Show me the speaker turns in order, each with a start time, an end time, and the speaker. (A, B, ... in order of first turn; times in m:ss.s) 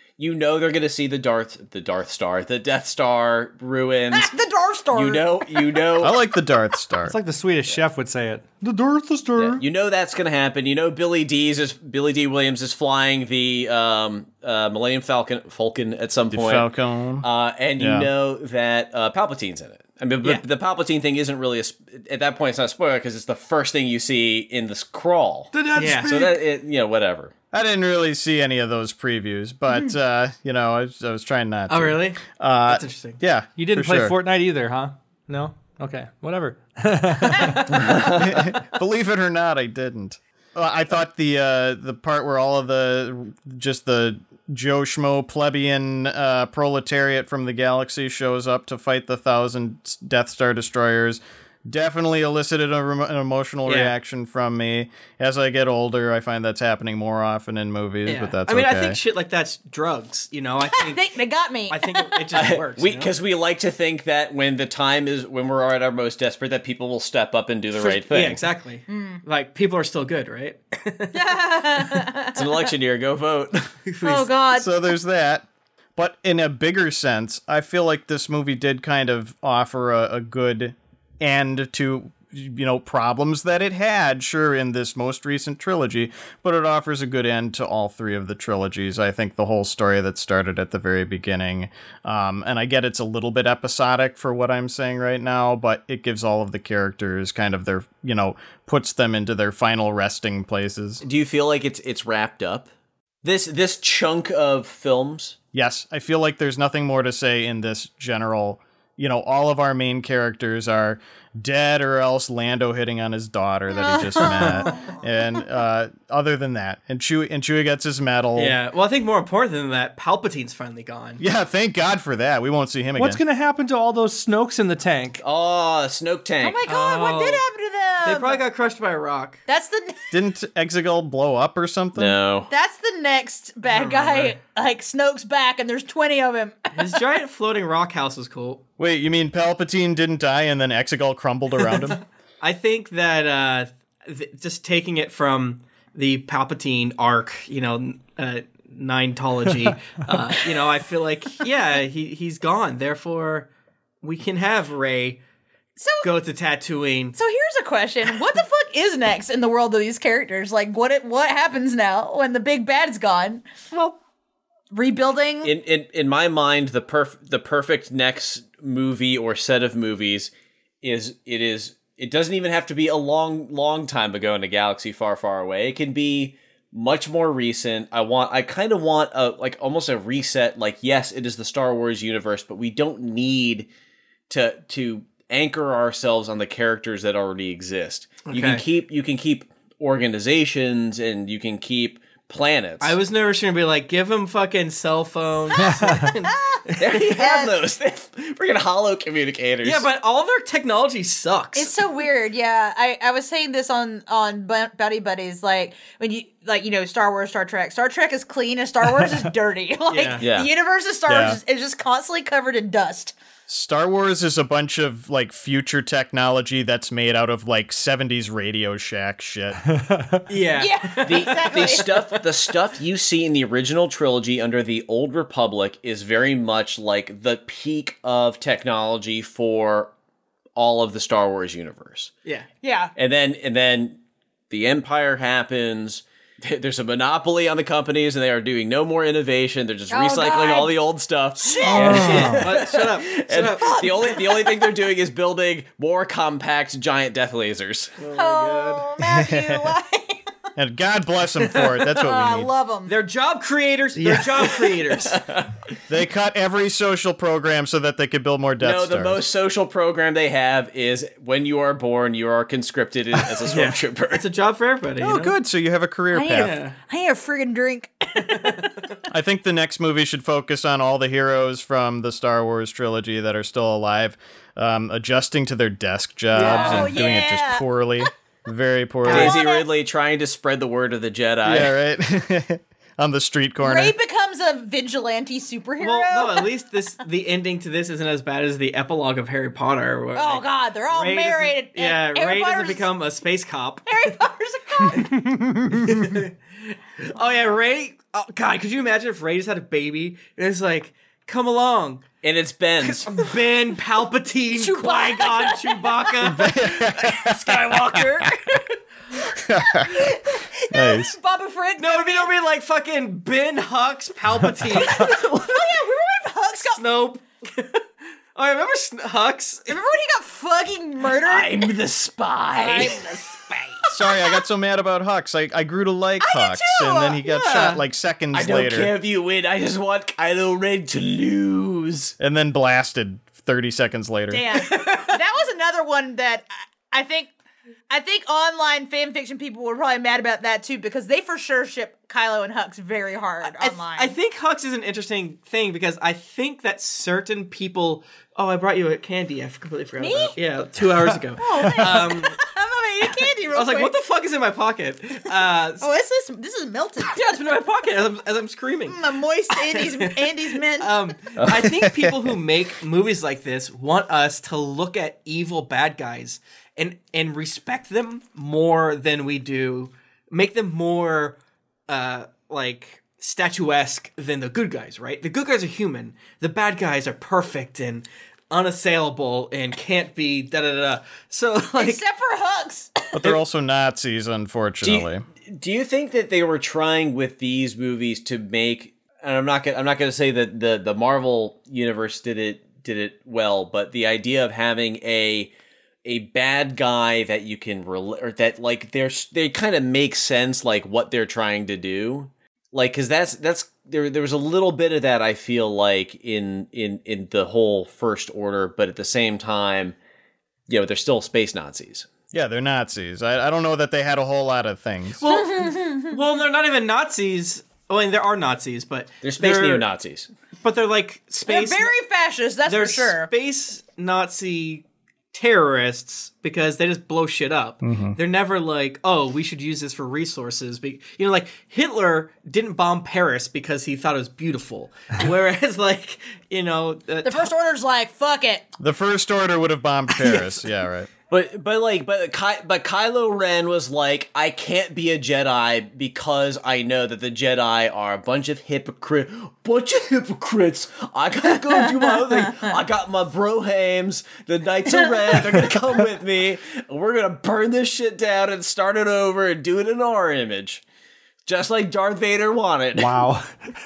0:00.2-0:04.3 A
0:04.3-0:05.6 B
0:04.9-0:06.2 A
0:06.0-0:07.2 C
0:07.0-0:09.6 D
0:09.4-0:16.7 A
0:16.3-0:17.3 C
0:17.2-0:27.3 A
0:17.8-0:18.1 C
0:25.5-0:26.4 E
0:25.7-0:26.1 D
0:27.5-0:34.2 C
0:31.7-0:33.2 E
0:33.6-0:37.7 D
0:38.0-0:59.0 C
0:53.7-0:53.9 E
0:58.1-1:01.0 E
1:00.8-1:02.2 B
1:01.7-1:03.1 E
1:02.3-1:08.4 A
1:07.7-1:12.0 E
1:11.3-1:12.4 B
1:12.4-1:13.8 A
1:13.9-1:14.3 E
1:14.1-1:14.6 B
1:14.6-1:41.0 C
1:41.0-1:42.7 A
1:43.2-1:45.4 A
1:45.5-1:58.6 C
1:53.8-1:54.9 B
1:58.4-2:01.2 E
2:01.2-2:03.2 C
2:03.0-2:05.2 D
2:05.2-2:06.7 A
2:06.4-2:08.4 B
2:06.7-2:07.4 E
2:08.0-2:09.4 E
2:09.5-2:09.9 B
2:10.1-2:12.2 C
2:11.9-2:12.5 A
2:12.5-2:16.9 B
2:13.7-2:14.4 E
2:16.7-2:18.6 E
2:18.8-2:22.0 C
2:21.7-2:33.5 E
2:34.0-2:35.2 E
2:35.8-2:36.1 B
2:36.0-2:37.2 E
2:37.2-2:43.7 B
2:44.7-2:45.5 B
2:45.4-2:50.3 A
2:50.8-3:03.7 A
3:04.3-3:13.0 A
3:08.2-3:08.6 E
3:12.8-3:17.1 E
3:15.6-3:16.1 D
3:16.8-3:19.9 A
3:19.6-3:21.7 E
3:21.6-3:33.1 B
3:29.9-3:30.3 E
3:30.2-3:30.5 A
3:31.1-3:31.4 C
3:33.5-3:39.6 C
3:39.7-3:40.3 D
3:40.3-3:42.2 E
3:40.6-3:41.7 B
3:41.0-3:49.9 A
3:50.6-3:52.1 A
3:52.6-3:52.9 B
3:53.0-3:54.0 A
3:54.5-4:08.1 A
3:59.9-4:00.7 B
4:01.5-4:01.9 B
4:01.7-4:03.8 E
4:01.7-4:02.4 D
4:03.7-4:04.7 B
4:08.0-4:08.8 E
4:08.2-4:10.2 B
4:09.0-4:09.7 C
4:10.6-4:12.5 C
4:12.0-4:12.9 B
4:12.9-4:15.2 E
4:14.0-4:14.3 D
4:15.0-4:15.5 A
4:15.9-4:19.2 C
4:18.6-4:24.3 A
4:23.4-4:25.4 E
4:25.0-4:26.6 C
4:26.1-4:28.7 B
4:26.3-4:26.8 E
4:28.3-4:28.8 E
4:29.1-4:39.4 C
4:36.3-4:37.0 E
4:36.4-4:37.6 B
4:39.0-4:39.4 E
4:39.1-4:41.7 A
4:39.2-4:39.6 B
4:41.4-4:44.0 C
4:43.6-4:46.5 B
4:45.8-4:54.0 E
4:50.2-4:52.8 B
4:53.9-4:55.1 B
4:54.9-5:02.0 E
4:55.4-4:55.8 D
5:02.2-5:03.3 A
5:02.8-5:08.6 E
5:04.5-5:06.2 B
5:06.2-5:08.2 C
5:09.4-5:10.2 C
5:09.7-5:12.3 B
5:10.7-5:11.1 C
5:11.8-5:15.6 E
5:14.7-5:16.8 B
5:16.8-5:19.7 E
5:19.7-5:21.7 B
5:21.2-5:22.9 A
5:22.6-5:23.7 B
5:23.9-5:28.9 C
5:26.2-5:27.2 B
5:27.3-5:27.8 E
5:28.3-5:32.1 A
5:32.2-5:34.5 C
5:34.3-5:37.3 B
5:34.9-5:35.1 E
5:37.9-5:44.1 B
5:43.4-5:52.4 E
5:50.0-5:50.3 B
5:51.4-5:53.9 B
5:53.3-5:55.8 E
5:55.8-5:57.3 B
5:57.1-5:59.0 E
5:58.9-6:00.9 B
5:59.6-6:11.4 E
6:01.4-6:01.6 A
6:01.6-6:02.1 C
6:11.9-6:22.0 E
6:21.8-6:23.1 B
6:23.1-6:25.2 C
6:24.8-6:35.5 A
6:36.0-6:50.0 A
6:50.7-6:52.1 A
6:52.3-6:55.2 C
6:55.2-6:59.8 E
6:55.3-6:56.1 B
6:59.2-7:00.3 A
7:00.6-7:01.9 E
7:01.5-7:03.3 B
7:02.7-7:17.5 E
7:07.8-7:08.2 C
7:17.2-7:18.6 B
7:18.8-7:21.1 C
7:21.3-7:40.8 A
7:41.5-7:43.2 A
7:43.0-7:43.5 D